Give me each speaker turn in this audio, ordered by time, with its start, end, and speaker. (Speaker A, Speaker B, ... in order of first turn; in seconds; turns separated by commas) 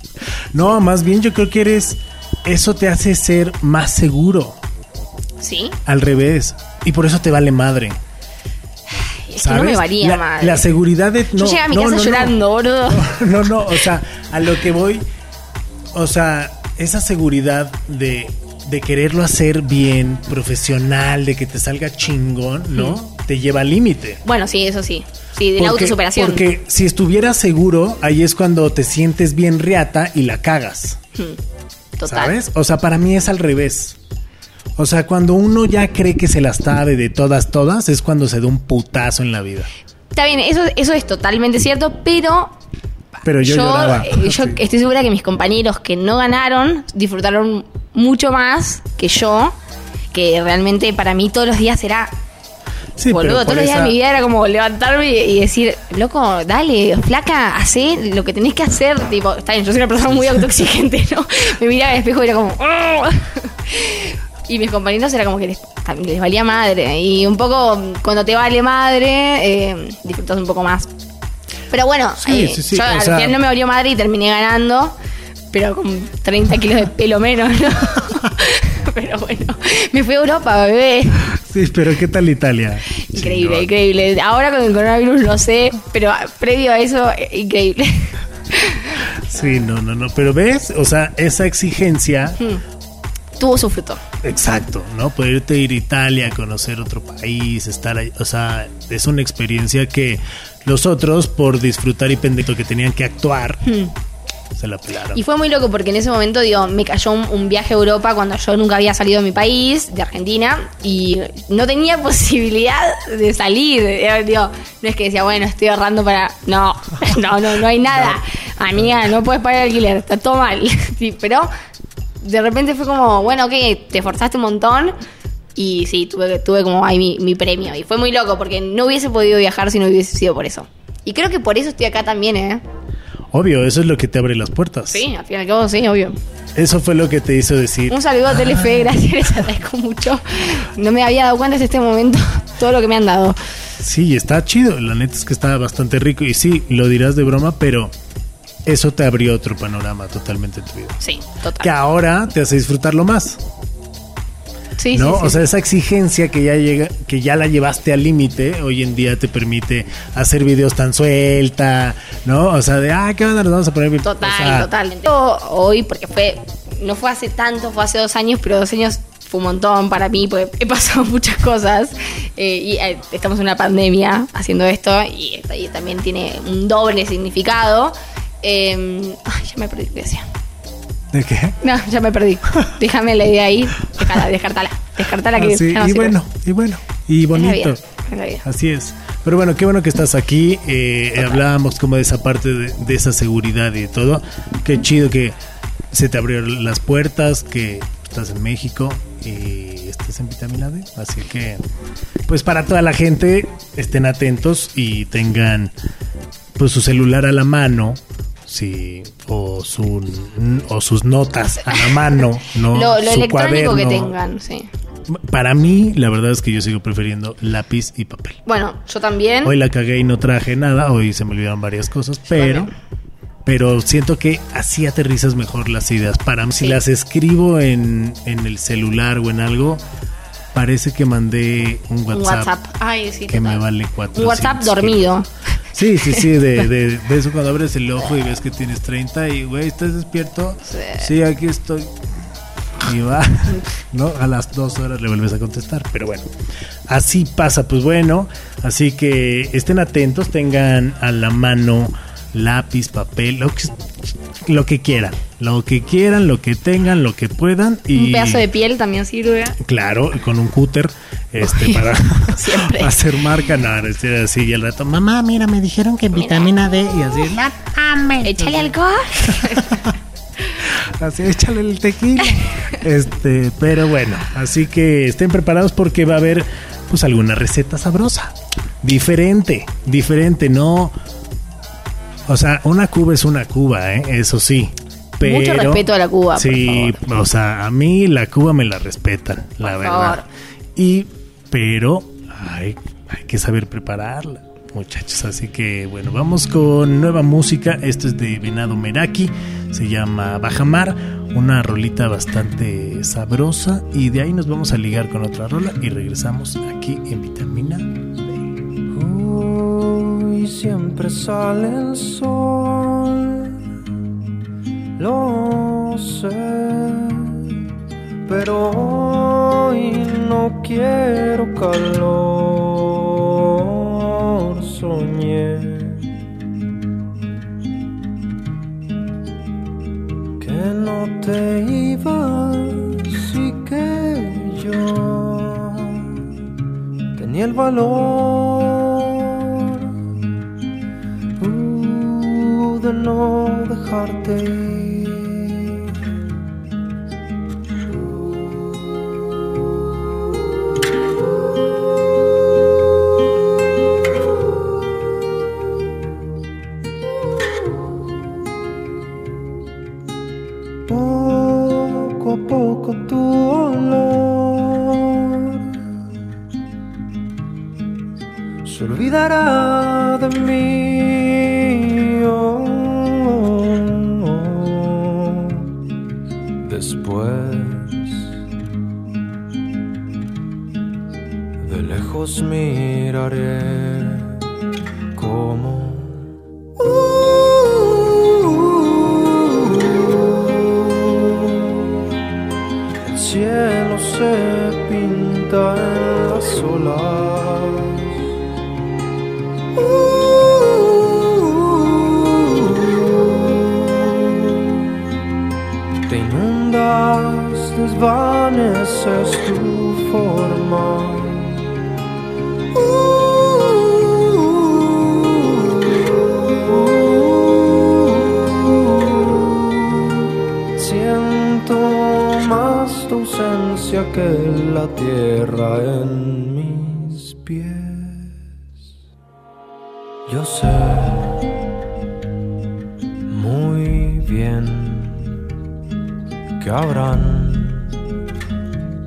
Speaker A: 0.5-4.6, Speaker B: 5.4-5.8, Speaker A: 5.8-8.0, Speaker B: 9.0-10.6, Speaker A: 9.4-15.1, Speaker B: 11.3-13.2, Speaker A: 15.9-24.2, Speaker B: 24.2-26.4, Speaker A: 25.6-31.0, Speaker B: 32.0-32.3, Speaker A: 32.0-34.0, Speaker A: 34.8-39.7, Speaker B: 40.1-42.5, Speaker A: 43.2-44.6, Speaker B: 43.4-49.5, Speaker B: 50.1-52.1, Speaker A: 53.0-54.0, Speaker B: 53.1-70.9, Speaker B: 71.7-74.9, Speaker A: 72.2-73.4, Speaker B: 75.5-81.3, Speaker A: 81.4-83.7, Speaker B: 83.1-89.7, Speaker A: 89.3-92.4, Speaker B: 93.4-94.0, Speaker A: 94.2-103.6, Speaker B: 103.6-103.9, Speaker A: 104.5-105.2, Speaker B: 105.1-121.5, Speaker A: 117.8-118.2, Speaker B: 122.2-124.9, Speaker B: 125.5-132.6, Speaker A: 133.3-135.0, Speaker B: 134.9-136.2, Speaker A: 136.5-139.0, Speaker B: 137.9-143.4, Speaker A: 143.8-147.9, Speaker A: 148.6-151.0, Speaker B: 151.0-151.7, Speaker A: 151.6-153.4, Speaker B: 154.8-155.4, Speaker A: 154.9-164.7, Speaker B: 164.0-180.2, Speaker A: 181.1-181.6, Speaker B: 181.6-186.2, Speaker A: 185.3-187.8, Speaker B: 187.3-188.4, Speaker A: 188.4-195.4, Speaker A: 195.9-201.6, Speaker A: 202.3-205.7, Speaker A: 206.6-214.1, Speaker B: 212.7-214.7, Speaker A: 215.1-218.4, Speaker B: 218.5-219.5, Speaker A: 219.4-222.7, Speaker B: 222.3-222.7, Speaker A: 223.4-229.8, Speaker A: 230.5-232.5, Speaker B: 232.1-235.3, Speaker A: 233.3-235.2, Speaker A: 235.7-241.9, Speaker B: 240.7-241.1, Speaker A: 242.8-246.3, Speaker A: 246.9-253.8, Speaker A: 254.4-258.4, Speaker B: 257.9-259.6, Speaker A: 259.6-269.9, Speaker B: 261.4-262.9, Speaker B: 266.1-266.5, Speaker B: 268.2-269.8, Speaker A: 270.6-280.9, Speaker B: 272.2-272.6, Speaker A: 282.3-290.2, Speaker B: 285.2-287.0, Speaker B: 289.6-290.2, Speaker A: 290.8-307.9, Speaker C: 308.9-313.6, Speaker C: 315.0-317.5, Speaker C: 318.2-326.0, Speaker C: 330.4-336.1, Speaker C: 337.1-339.9, Speaker C: 341.4-345.8, Speaker C: 348.3-348.6, Speaker C: 360.9-365.6, Speaker C: 368.6-375.6, Speaker C: 376.6-378.3, Speaker C: 381.6-384.4, Speaker C: 385.1-386.3, Speaker C: 388.8-390.2, Speaker C: 393.0-398.1, Speaker C: 400.9-401.6, Speaker C: 402.1-403.4, Speaker C: 406.1-411.6, Speaker C: 415.6-417.2, Speaker C: 418.5-419.6, Speaker C: 420.8-428.3, Speaker C: 430.3-431.4, Speaker C: 433.3-435.4, Speaker C: 436.6-437.9